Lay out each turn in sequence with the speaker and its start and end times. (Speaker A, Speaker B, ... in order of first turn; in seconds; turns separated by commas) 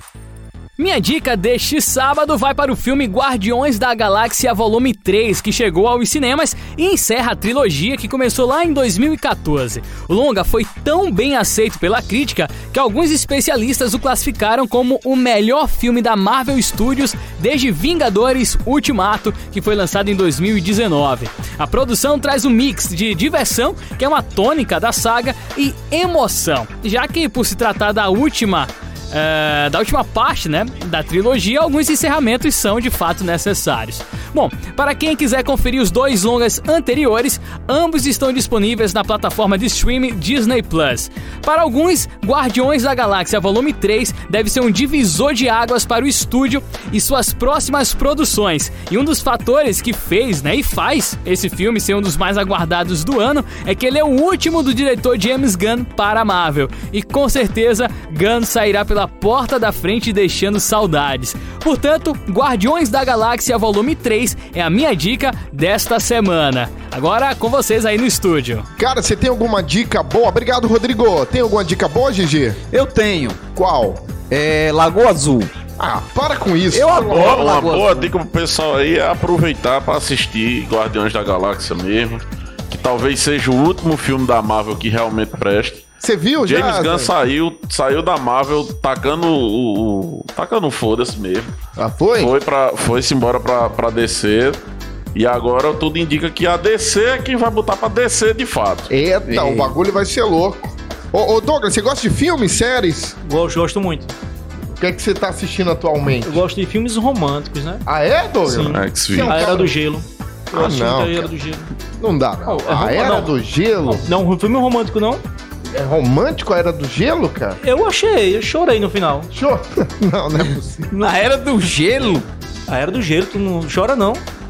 Speaker A: 0.8-68.7, Speaker B: 68.8-72.6, Speaker C: 72.7-73.4, Speaker B: 73.5-74.0, Speaker C: 74.3-75.5, Speaker B: 75.8-77.5, Speaker C: 76.7-78.1, Speaker D: 77.0-85.8, Speaker B: 86.0-87.1, Speaker D: 86.4-91.5, Speaker B: 91.8-92.3, Speaker D: 92.2-94.6, Speaker D: 95.2-98.9, Speaker B: 98.9-103.2, Speaker C: 99.3-99.8, Speaker E: 103.2-104.1, Speaker B: 104.7-106.4, Speaker E: 106.2-107.9, Speaker B: 107.9-109.7, Speaker E: 108.5-111.7, Speaker D: 108.7-109.3, Speaker B: 110.5-111.3, Speaker B: 112.0-114.1, Speaker E: 112.5-113.3, Speaker E: 113.9-115.2, Speaker B: 115.7-117.6, Speaker E: 117.6-119.3, Speaker B: 119.3-120.9, Speaker C: 120.9-122.2, Speaker E: 122.7-124.2